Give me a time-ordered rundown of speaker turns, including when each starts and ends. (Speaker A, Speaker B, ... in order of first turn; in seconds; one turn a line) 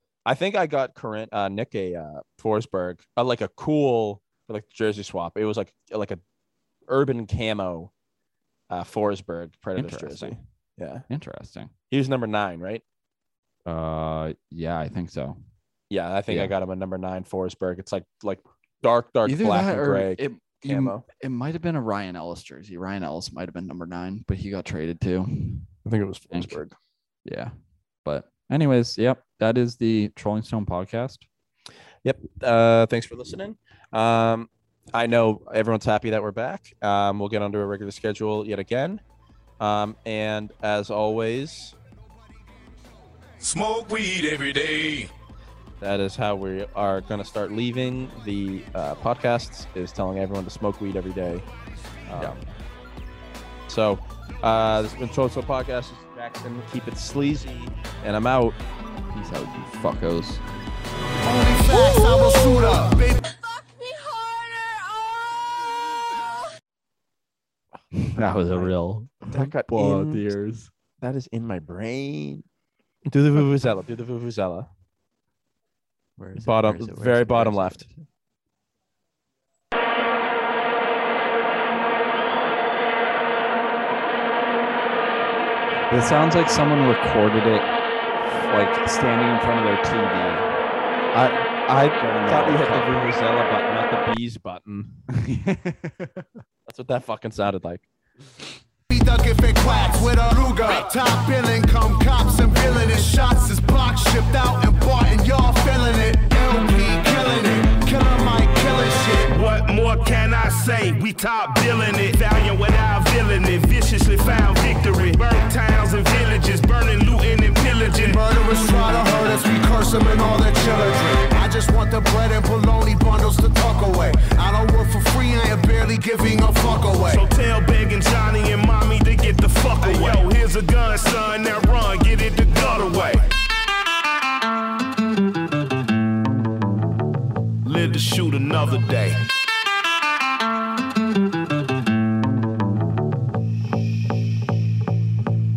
Speaker A: 0.2-6.2
Speaker A: 6.9-7.9
Speaker A: 8.7-11.1
Speaker B: 9.8-10.3
Speaker B: 11.1-11.7
Speaker A: 11.9-12.8
Speaker B: 13.7-15.4
Speaker A: 15.9-21.0
Speaker B: 16.3-16.5
Speaker B: 19.2-25.7
Speaker A: 25.8-26.8
Speaker B: 26.3-26.6
Speaker B: 27.2-27.5
Speaker B: 28.0-31.3
Speaker A: 32.0-39.0
Speaker A: 39.6-41.7
Speaker C: 43.4-45.0
Speaker A: 45.8-51.5
Speaker A: 52.1-52.4
Speaker B: 52.1-52.4
Speaker A: 53.7-58.6
Speaker B: 59.1-60.4
Speaker D: 61.2-63.2
Speaker B: 67.9-70.7
Speaker A: 69.3-70.3
Speaker A: 71.0-72.4
Speaker A: 73.1-74.7
Speaker B: 76.2-78.0
Speaker A: 76.3-77.8
Speaker B: 85.9-87.7
Speaker B: 88.3-90.5
Speaker A: 91.1-95.0
Speaker B: 92.0-93.0
Speaker B: 95.1-96.3
Speaker A: 96.7-97.9
Speaker D: 98.9-109.3
Speaker C: 109.3-118.2
Speaker D: 118.0-127.3
Speaker C: 127.0-133.3
Speaker C: 137.6-139.2